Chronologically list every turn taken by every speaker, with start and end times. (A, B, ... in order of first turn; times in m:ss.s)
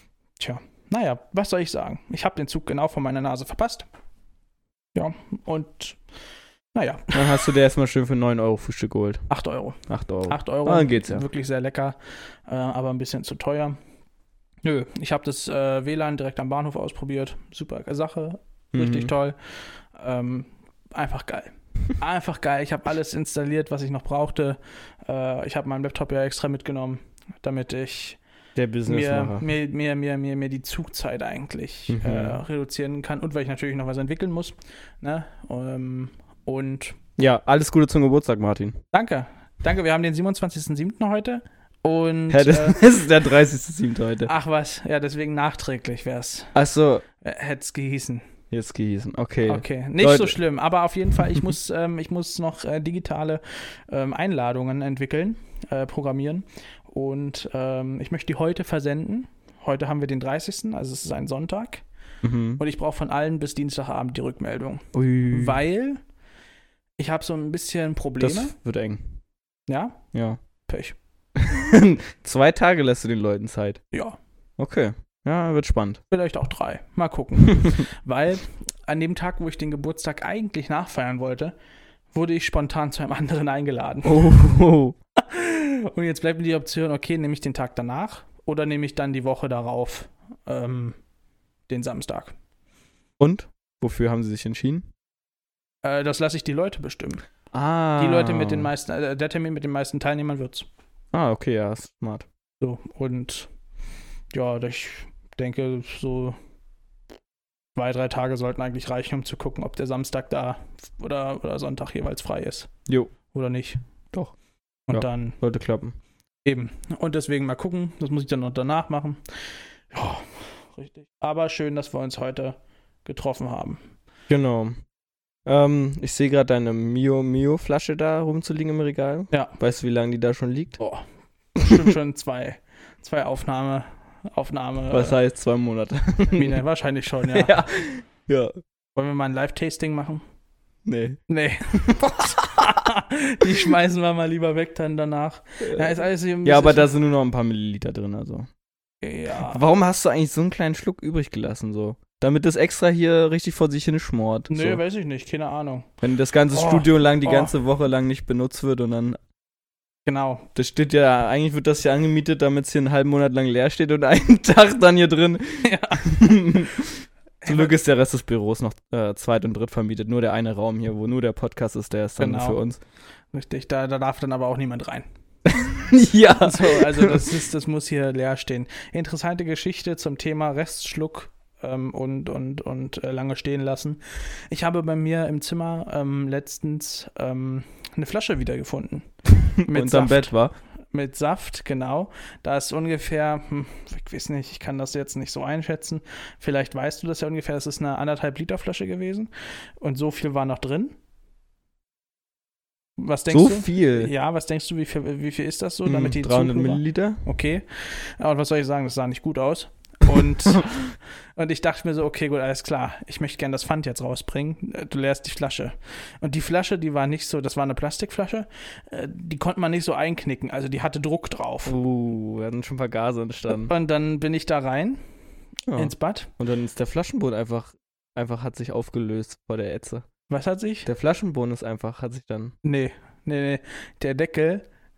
0:00.4-0:03.9 A
0:04.9-0:06.0 A
0:06.7-0:07.5 A
0:07.1-0:09.3 B
0:09.3-0:13.8 A
0:09.9-0:11.2 B
0:14.6-0:28.2 A
0:18.7-0:19.1 B
0:28.6-0:29.5 B
0:28.9-0:37.0 A
0:31.9-0:32.4 B
0:37.2-0:38.8 B
0:38.9-0:42.8 A
0:42.3-0:44.3 B
0:44.3-0:46.6 A
0:46.6-0:47.0 B
0:47.2-0:48.3 A
0:48.5-0:50.4 B
0:49.5-1:01.8 A
1:02.2-1:02.6 B
1:02.6-1:06.0 A
1:04.9-1:05.6 B
1:07.0-1:08.5 A
1:08.2-1:09.2 B
1:09.7-1:10.0 A
1:10.1-1:10.4 B
1:10.7-1:11.0 A
1:11.4-1:13.8 B
1:13.9-1:14.2 A
1:14.6-1:16.0 B
1:16.1-1:21.6 A
1:22.1-1:24.3 A
1:24.0-1:25.0 B
1:25.2-1:31.0 A
1:31.7-1:32.4 A
1:33.2-1:34.9 B
1:35.8-1:37.2 A
1:37.5-1:38.7 B
1:38.0-1:40.7 A
1:41.1-1:42.3 B
1:42.6-1:43.5 A
1:44.3-1:46.4 A
1:47.8-1:52.7 A
1:53.3-1:53.8 A
1:54.9-1:55.4 A
1:54.9-1:56.0 B
1:56.4-2:03.8 A
2:04.3-2:04.8 B
2:05.5-2:10.8 B
2:10.8-2:15.2 A
2:14.9-2:16.6 B
2:16.3-2:17.6 A
2:17.3-2:18.6 B
2:19.0-2:20.2 A
2:20.9-2:21.2 B
2:21.3-2:26.9 A
2:21.8-2:22.7 B
2:25.6-2:28.5 B
2:29.0-2:29.6 A
2:29.4-2:34.8 B
2:34.5-2:35.9 A
2:36.0-2:39.2 B
2:36.5-2:37.5 A
2:40.1-2:40.5 A
2:40.6-2:52.8 B
2:45.6-2:46.4 A
2:47.4-2:47.7 A
2:52.2-2:52.6 A
2:53.3-2:55.1 A
2:55.5-2:57.2 B
2:56.4-3:09.1 A
3:09.6-3:10.4 A
3:09.7-3:10.5 B
3:10.9-3:21.0 A
3:23.0-3:41.8 A
3:23.3-3:24.1 B
3:25.9-3:27.2 B
3:41.6-3:43.7 B
3:43.5-3:45.1 A
3:45.7-3:50.1 B
3:45.8-3:46.3 A
3:50.3-3:50.9 A
3:50.8-3:52.6 B
3:52.6-3:54.7 A